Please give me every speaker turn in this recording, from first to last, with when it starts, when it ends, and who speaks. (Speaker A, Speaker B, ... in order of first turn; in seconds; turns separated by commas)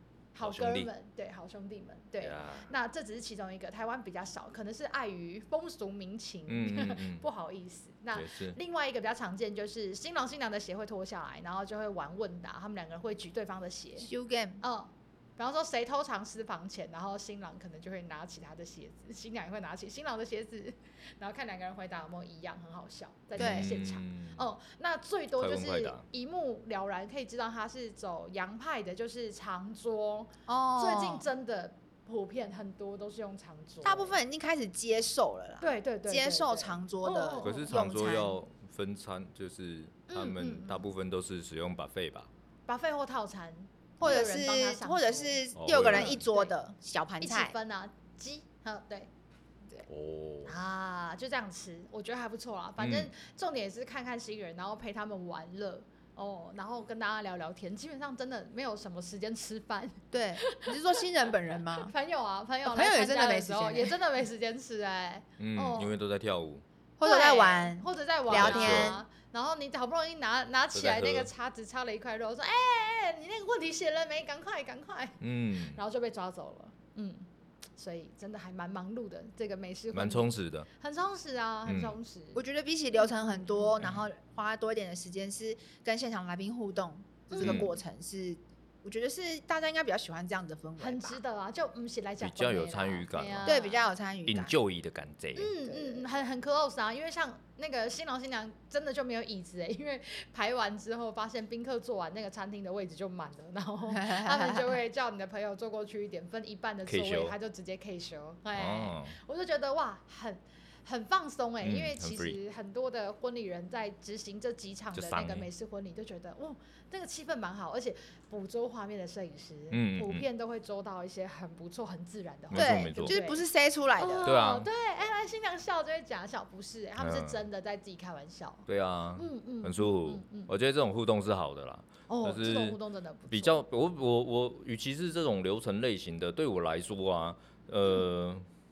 Speaker A: 0.3-14.1, Speaker B: 0.4-0.9, Speaker B: 2.2-2.7, Speaker B: 6.5-7.2, Speaker B: 8.1-8.6, Speaker C: 14.0-14.6, Speaker A: 14.6-34.2, Speaker C: 23.4-23.7, Speaker B: 23.4-24.4, Speaker B: 25.4-26.0, Speaker C: 30.5-31.3, Speaker C: 33.8-38.4, Speaker A: 35.6-37.8, Speaker B: 37.4-42.3, Speaker A: 40.1-40.9, Speaker A: 42.7-46.5, Speaker C: 44.0-47.5, Speaker B: 45.5-46.2, Speaker A: 47.2-49.1, Speaker B: 49.9-50.5, Speaker A: 50.4-61.0, Speaker B: 52.8-53.1, Speaker C: 60.1-61.9, Speaker A: 61.8-65.9, Speaker C: 62.6-64.0, Speaker B: 65.4-66.6, Speaker C: 67.0-69.0, Speaker A: 67.0-75.2, Speaker B: 68.3-69.0, Speaker B: 70.7-71.3, Speaker B: 75.2-75.8, Speaker A: 75.7-82.4, Speaker B: 79.9-80.7, Speaker B: 81.7-82.0, Speaker C: 82.4-91.2, Speaker A: 83.0-83.8, Speaker A: 87.3-87.8, Speaker B: 87.4-87.7, Speaker A: 90.8-93.8, Speaker B: 92.2-93.6, Speaker C: 93.4-94.5, Speaker B: 94.3-95.5, Speaker A: 95.4-123.4, Speaker C: 95.6-96.1, Speaker C: 103.9-104.8, Speaker B: 106.9-107.4, Speaker B: 108.5-109.2, Speaker B: 111.6-112.4, Speaker B: 114.9-115.5, Speaker B: 119.7-120.2, Speaker B: 122.5-123.2, Speaker C: 122.5-124.3, Speaker A: 124.0-128.7, Speaker B: 124.2-124.7, Speaker B: 127.0-127.4, Speaker B: 128.7-132.8, Speaker A: 129.2-130.5, Speaker A: 132.1-133.6, Speaker B: 133.3-138.4